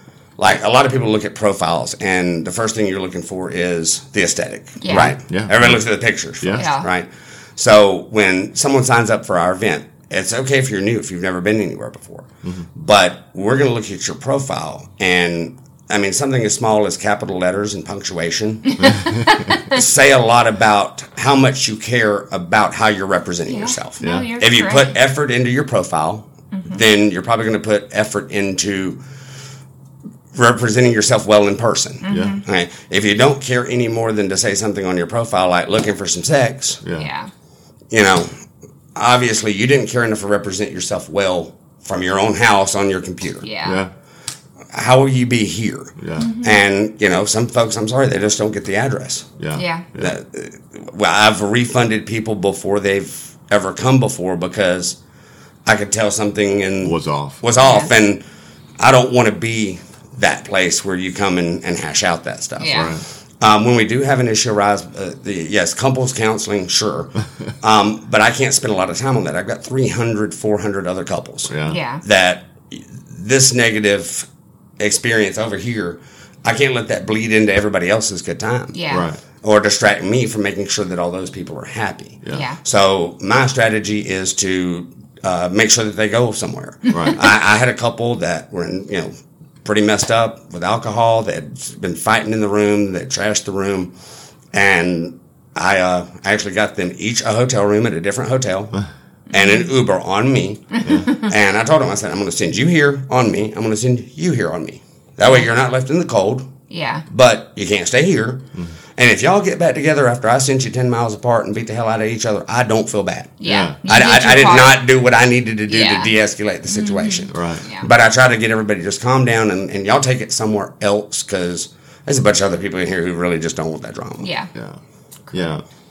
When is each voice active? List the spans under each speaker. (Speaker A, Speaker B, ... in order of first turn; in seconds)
Speaker A: 0.4-19.0, 19.6-29.0, 30.3-36.8, 37.9-38.4, 39.0-43.5, 44.7-49.3, 50.0-55.0, 55.7-58.2, 58.8-74.3, 74.8-78.8, 79.4-89.1, 89.7-93.9, 94.5-106.5, 107.1-108.5, 109.0-124.3
Speaker B: 4.8-5.2, 6.5-6.9, 18.7-19.8, 23.5-24.9, 26.5-26.8, 32.0-32.4, 37.0-37.3, 43.4-43.9, 46.2-46.6, 49.5-49.9, 57.6-57.9, 62.6-63.0, 71.7-72.0, 78.7-79.1, 82.3-82.6, 86.9-87.2, 99.3-99.7, 100.8-101.3, 106.7-107.0, 113.4-114.8, 115.7-116.1, 116.7-117.9, 124.2-124.5
Speaker C: 5.3-5.8, 19.0-19.2, 24.0-24.3, 32.1-32.4, 36.8-37.1, 43.6-43.9, 46.0-46.3, 49.4-50.1, 56.8-57.4, 62.7-63.0, 71.5-71.8, 78.9-79.2, 86.9-87.2, 113.5-113.8, 117.3-117.6, 124.5-124.8, 125.3-125.6